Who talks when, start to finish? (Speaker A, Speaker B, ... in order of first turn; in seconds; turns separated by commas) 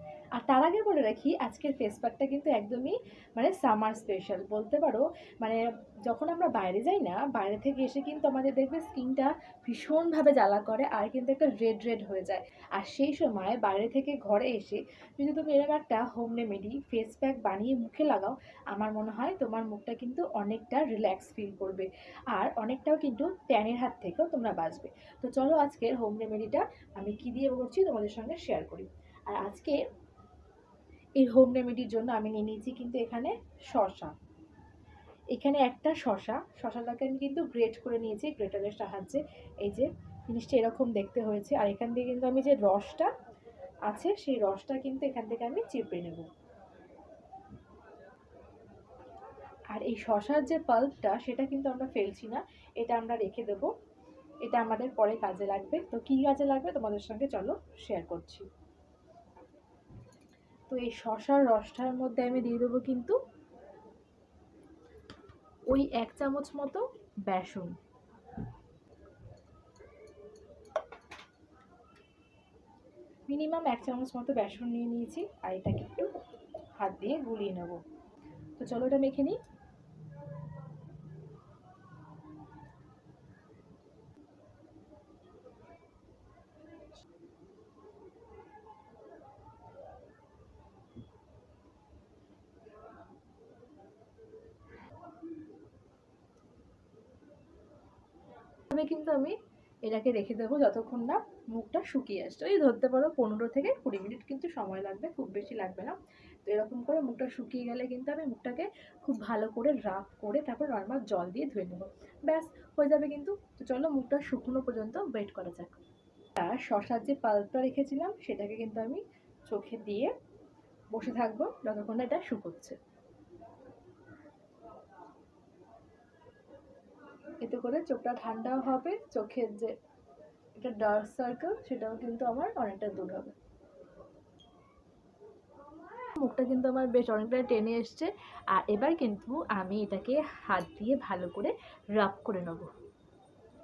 Speaker A: 0.3-29.8, Speaker A: 31.2-34.1, Speaker A: 35.3-43.1, Speaker A: 43.9-46.3, Speaker A: 49.7-53.7, Speaker A: 54.4-58.5, Speaker A: 60.7-63.2, Speaker A: 65.7-67.8, Speaker A: 73.3-76.1, Speaker A: 76.8-77.8, Speaker A: 78.6-79.4, Speaker A: 98.7-115.8, Speaker A: 116.4-120.1, Speaker A: 120.9-122.8, Speaker A: 127.4-129.7, Speaker A: 130.6-133.3, Speaker A: 136.2-142.7